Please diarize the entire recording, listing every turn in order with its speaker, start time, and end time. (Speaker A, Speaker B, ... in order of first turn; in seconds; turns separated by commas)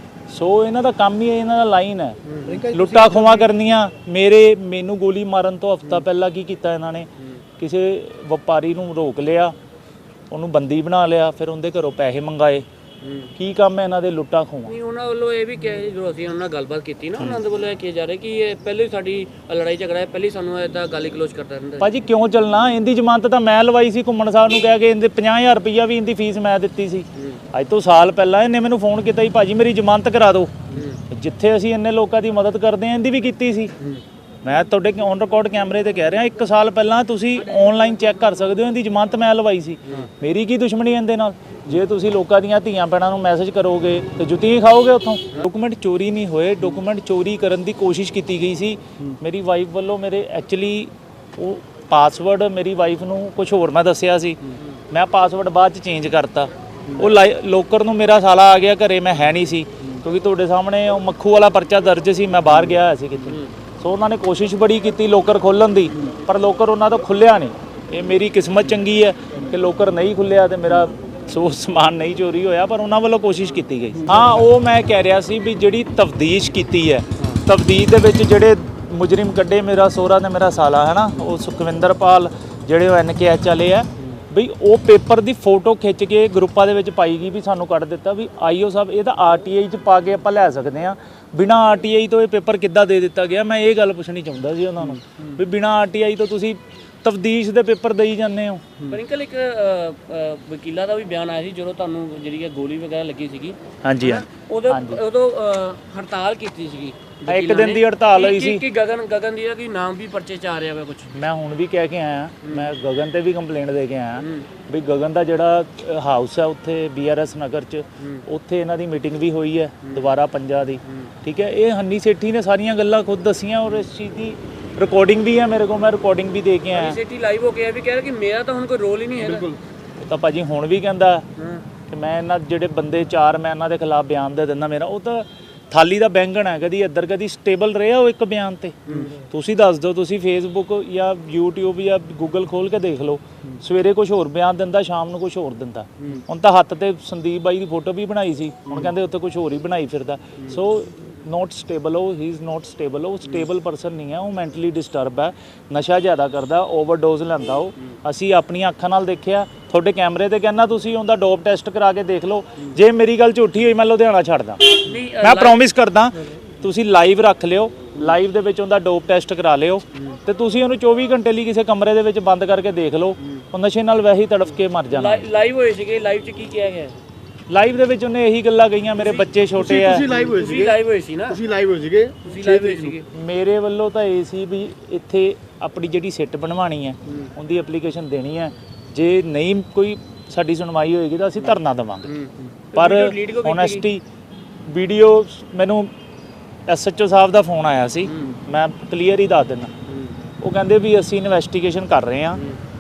Speaker A: 0.3-2.2, Speaker B: 2.3-2.7, Speaker A: 2.7-9.5, Speaker A: 10.3-12.7, Speaker C: 13.1-13.3, Speaker A: 13.4-14.7, Speaker C: 14.7-21.9, Speaker A: 21.8-33.7, Speaker A: 34.4-98.7, Speaker B: 74.1-74.4, Speaker C: 98.9-111.1, Speaker A: 103.8-105.0, Speaker A: 107.3-108.7, Speaker A: 111.1-127.0, Speaker C: 119.8-120.1, Speaker C: 126.7-129.5, Speaker B: 129.2-129.6, Speaker A: 130.1-131.3, Speaker A: 131.9-175.3, Speaker B: 146.0-146.3, Speaker C: 164.9-165.6, Speaker C: 174.9-177.0, Speaker A: 177.5-180.1, Speaker B: 179.6-183.0, Speaker C: 179.8-181.4, Speaker C: 182.2-183.1, Speaker A: 182.4-192.2, Speaker B: 192.1-192.6, Speaker C: 192.7-193.9, Speaker A: 192.8-194.0, Speaker A: 194.6-195.9, Speaker A: 196.7-199.7, Speaker C: 199.9-200.2, Speaker A: 200.4-202.4